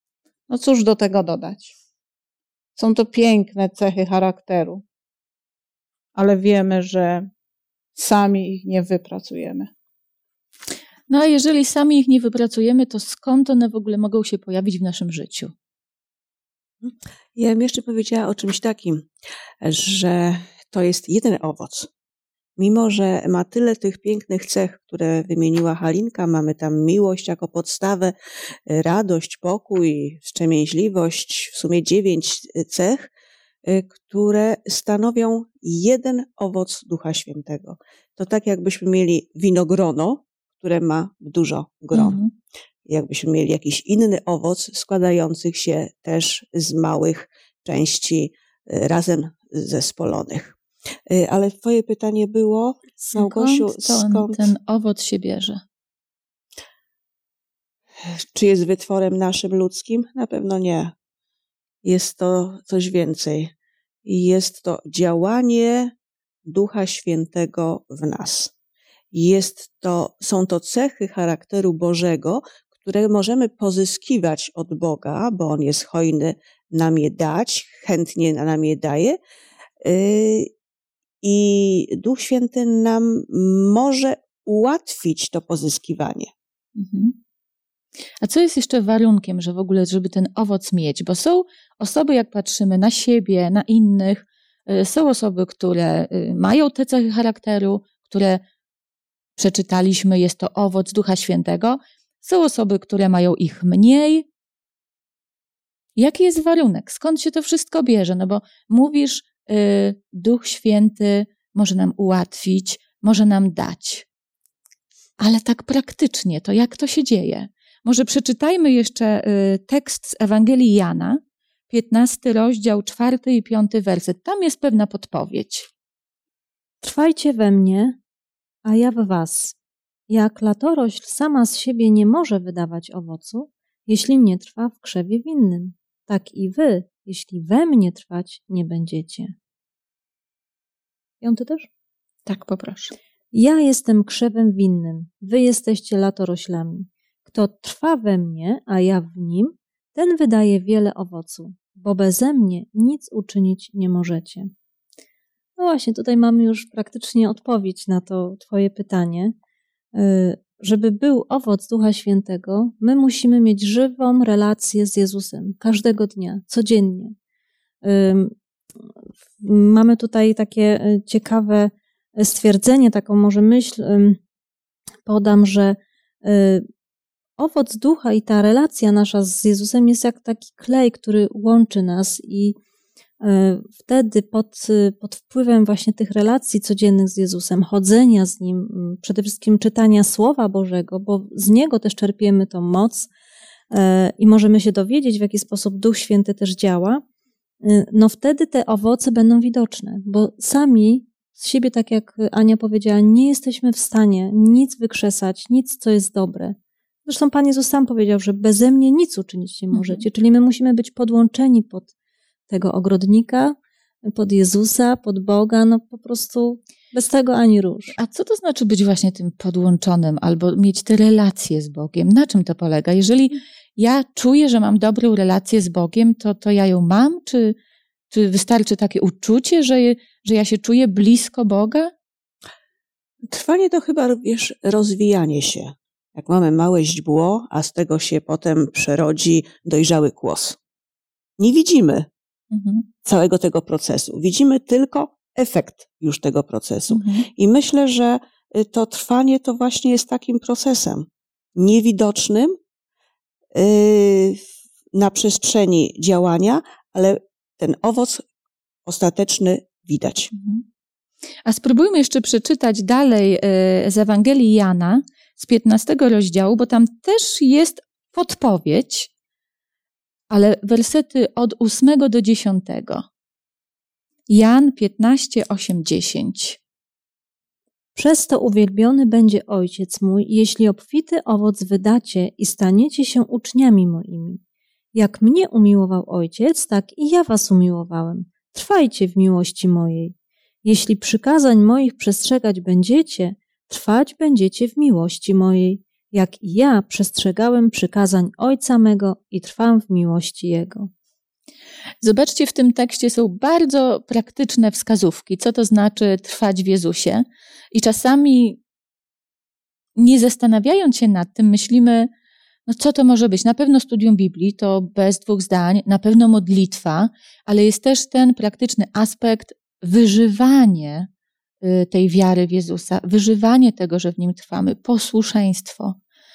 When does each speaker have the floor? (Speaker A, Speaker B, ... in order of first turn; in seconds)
Speaker A: 0.5-1.7, 2.8-4.8, 6.2-7.3, 8.0-9.7
Speaker B: 11.1-15.5, 41.9-42.3, 53.1-55.6, 86.8-87.2, 88.2-98.4, 99.4-104.3, 106.0-114.1, 115.2-125.7, 142.3-142.9, 209.7-210.0, 218.0-227.6, 228.1-231.9, 242.5-242.9, 246.9-247.3, 260.3-260.6, 261.4-269.1, 270.3-273.1, 274.3-276.6, 302.0-308.6, 310.0-312.1, 312.7-321.1, 321.6-326.0
Speaker C: 16.8-19.1, 19.6-21.9, 22.6-28.1, 28.7-33.1, 33.6-42.2, 42.9-50.6, 51.1-54.5, 58.0-60.9, 61.8-63.5, 64.0-65.9, 66.5-68.5, 69.1-79.2, 79.8-80.5, 81.2-86.3, 233.3-240.6, 241.4-242.1, 243.1-252.6, 253.6-254.4, 254.9-258.2, 258.9-260.3
Speaker D: 126.8-128.0, 128.7-129.6, 130.1-139.3, 141.2-141.7, 143.3-154.5, 155.6-159.3, 159.9-167.2, 167.8-168.3, 169.4-174.2, 175.1-176.7, 177.4-182.6, 183.2-193.1, 193.7-197.0, 197.6-211.9, 212.5-213.6, 214.1-218.0, 278.0-284.4, 284.9-300.9